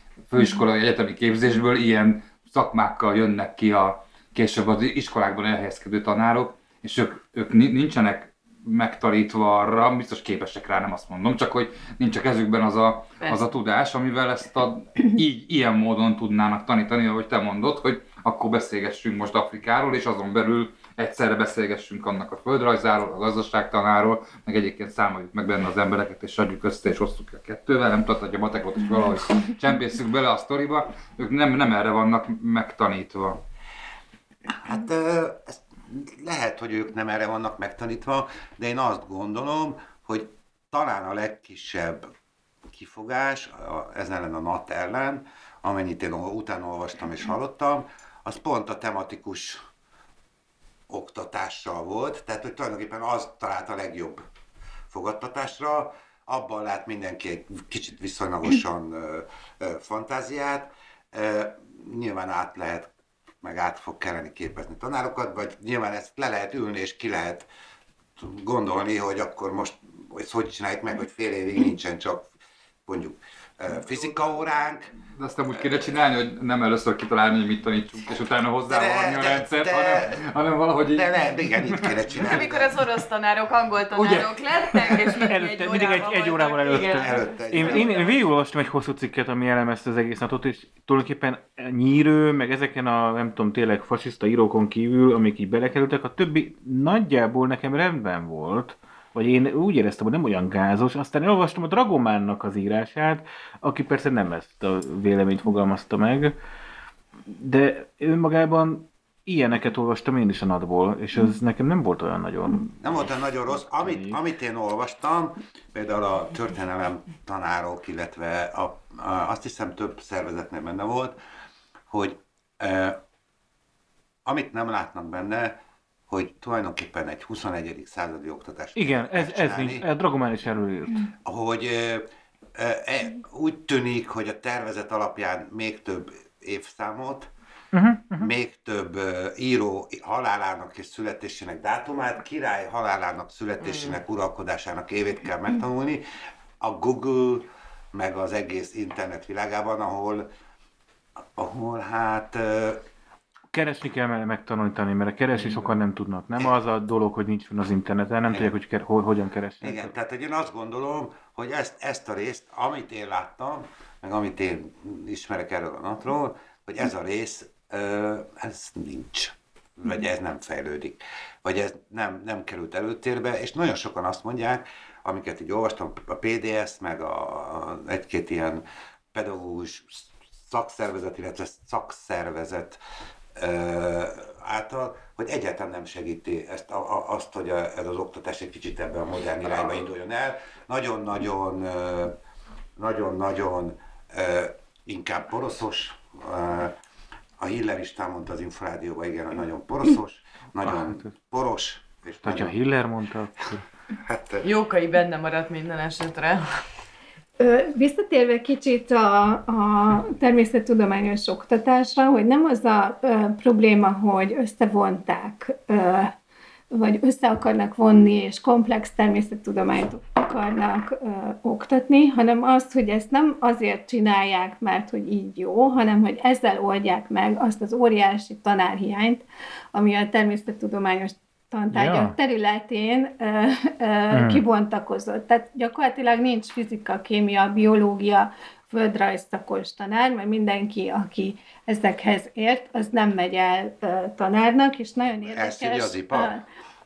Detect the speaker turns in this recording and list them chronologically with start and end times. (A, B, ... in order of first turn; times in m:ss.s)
0:00.3-0:33.4 A
0:34.5-0:42.1 B
0:42.7-0:49.6 B
0:50.9-0:54.2 B
0:54.9-1:07.5 B
1:08.2-1:12.3 B
1:12.8-1:14.9 B
1:13.8-1:14.3 A
1:15.0-1:22.4 A
1:18.7-1:20.2 B
1:20.9-1:22.7 B
1:22.2-1:28.1 C
1:23.9-1:25.2 A
1:25.3-1:46.3 D
1:26.9-1:28.2 B
1:47.2-1:54.2 D
1:52.8-2:01.2 B
2:01.9-2:03.0 B
2:04.2-2:05.6 B
2:06.1-2:09.8 B
2:08.8-2:11.1 D
2:11.2-2:17.3 B
2:17.7-2:18.3 D
2:18.2-2:26.0 B
2:23.6-2:24.0 C
2:26.6-2:30.3 B
2:31.3-2:32.8 B
2:33.5-2:39.9 D
2:35.4-2:35.7 A
2:38.3-2:38.5 B
2:39.6-3:02.8 B
3:03.4-3:12.2 B
3:12.8-3:16.8 B
3:17.4-3:22.6 B
3:20.7-3:21.1 D
3:22.2-3:23.6 D
3:24.0-3:24.5 B
3:24.4-3:26.4 C
3:27.4-3:36.1 E
3:36.7-4:06.4 E
3:51.7-3:52.1 D
3:54.1-3:54.4 D
4:05.2-4:06.3 B